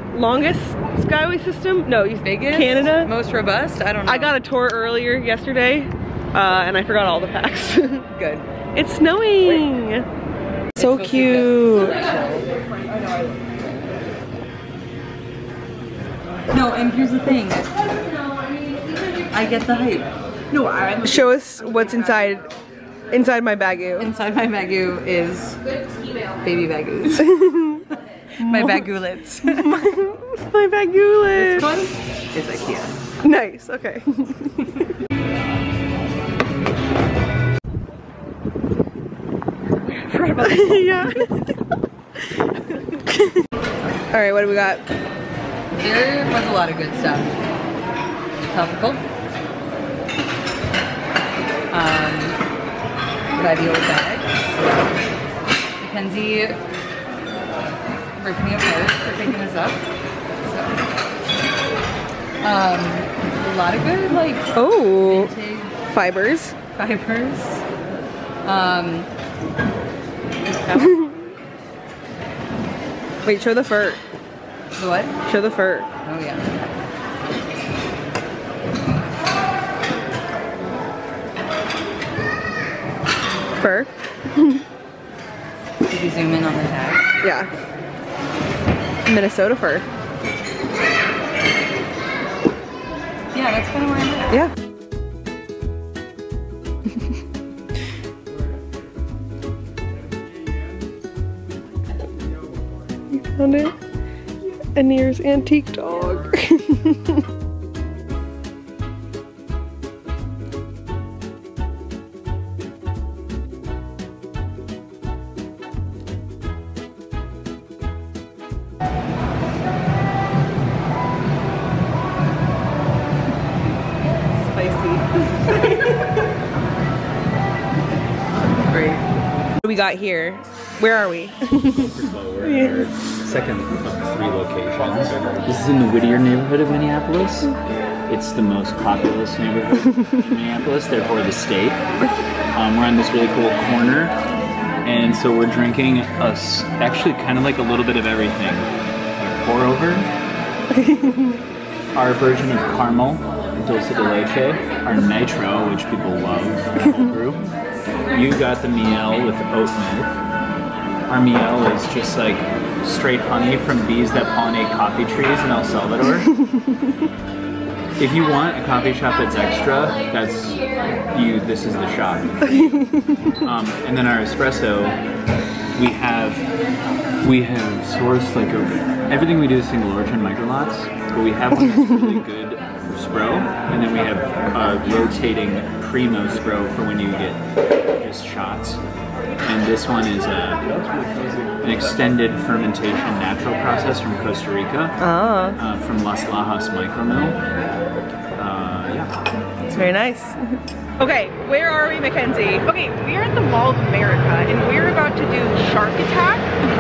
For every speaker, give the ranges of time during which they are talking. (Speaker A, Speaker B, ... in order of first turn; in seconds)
Speaker A: 0.1-3.1, 4.0-8.1, 8.7-10.1, 10.8-12.1, 21.0-22.5, 23.1-24.1, 27.2-27.8, 28.4-28.9, 29.4-31.7, 33.2-34.9, 40.0-41.5, 42.5-43.4, 44.1-44.8, 64.5-65.3, 65.9-66.6, 73.2-74.0, 75.2-75.9, 83.6-84.6, 87.2-87.5, 89.1-89.9, 103.1-103.7, 104.8-107.2, 124.4-126.2, 129.7-132.9, 150.8-151.4, 195.0-195.6, 199.7-202.6
Speaker B: 2.2-4.3, 8.1-8.5, 10.8-12.5, 16.5-18.1, 18.9-21.3, 24.0-27.4, 28.4-29.7, 31.3-32.9, 45.8-47.4, 48.5-49.0, 51.7-52.4, 53.4-54.3, 55.8-56.6, 58.2-59.9, 60.4-60.8, 62.4-65.8, 66.7-67.7, 68.4-69.1, 70.6-70.9, 74.8-75.2, 76.0-76.6, 85.9-87.1, 93.3-94.4, 128.7-129.0
Speaker C: 131.7-137.6, 138.1-141.8, 142.5-144.2, 144.8-150.1, 151.9-157.4, 158.1-160.2, 161.1-166.3, 168.0-172.8, 173.4-175.0, 175.8-176.4, 177.2-187.4, 188.0-188.8, 189.4-191.0, 191.5-194.9, 195.6-197.4, 198.4-199.2
Speaker D: 202.7-203.0, 203.8-206.5